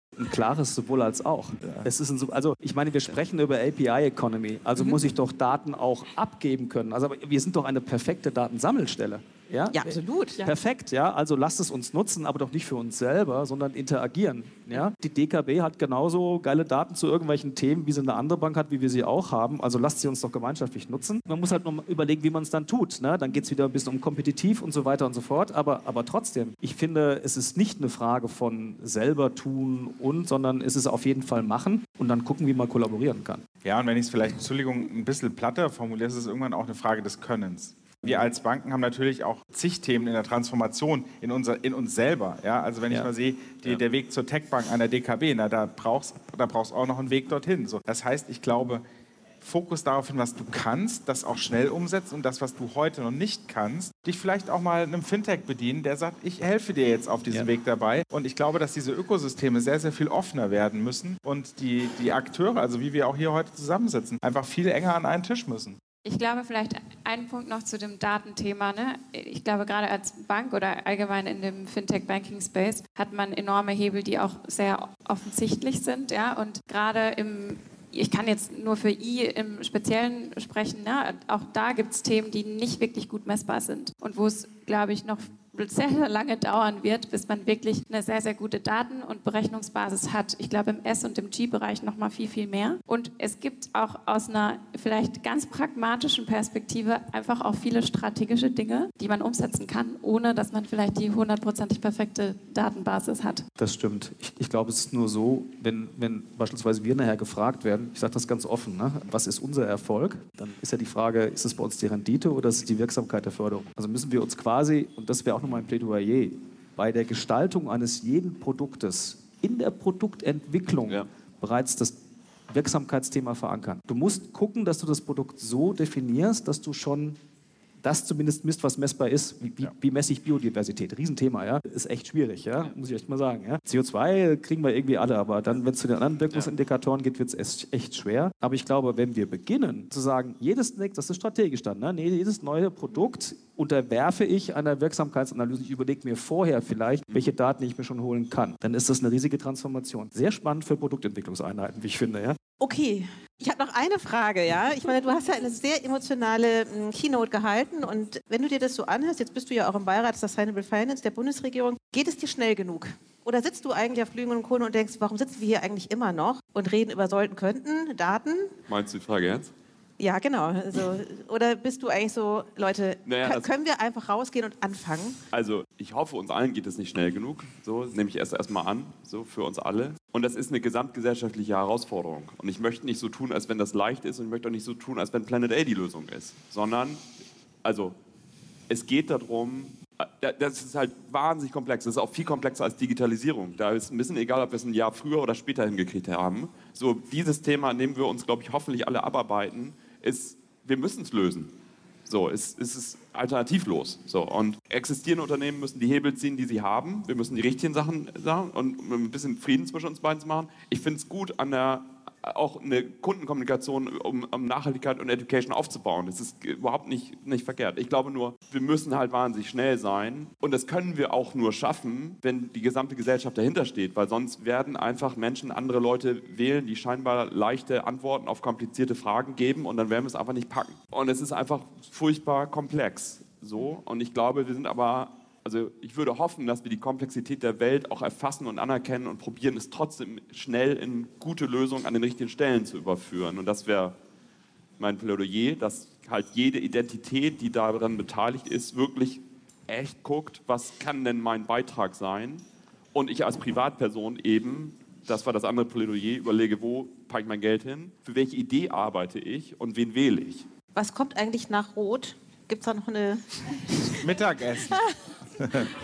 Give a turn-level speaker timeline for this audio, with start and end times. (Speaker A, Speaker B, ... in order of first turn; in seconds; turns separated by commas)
Speaker A: 0.2-33.4, Speaker B: 9.7-10.4, Speaker C: 33.6-48.8, Speaker C: 49.4-65.8, Speaker D: 66.0-103.5, Speaker A: 103.6-122.0, Speaker A: 122.5-127.2, Speaker A: 127.8-152.4, Speaker B: 152.6-168.5, Speaker E: 168.7-169.5, Speaker B: 170.0-175.2, Speaker E: 173.1-173.5, Speaker E: 175.3-187.0, Speaker E: 187.6-188.0, Speaker E: 188.7-201.5, Speaker E: 202.1-243.9, Speaker E: 244.8-260.4, Speaker B: 260.8-264.0, Speaker C: 264.0-264.8, Speaker C: 265.4-265.7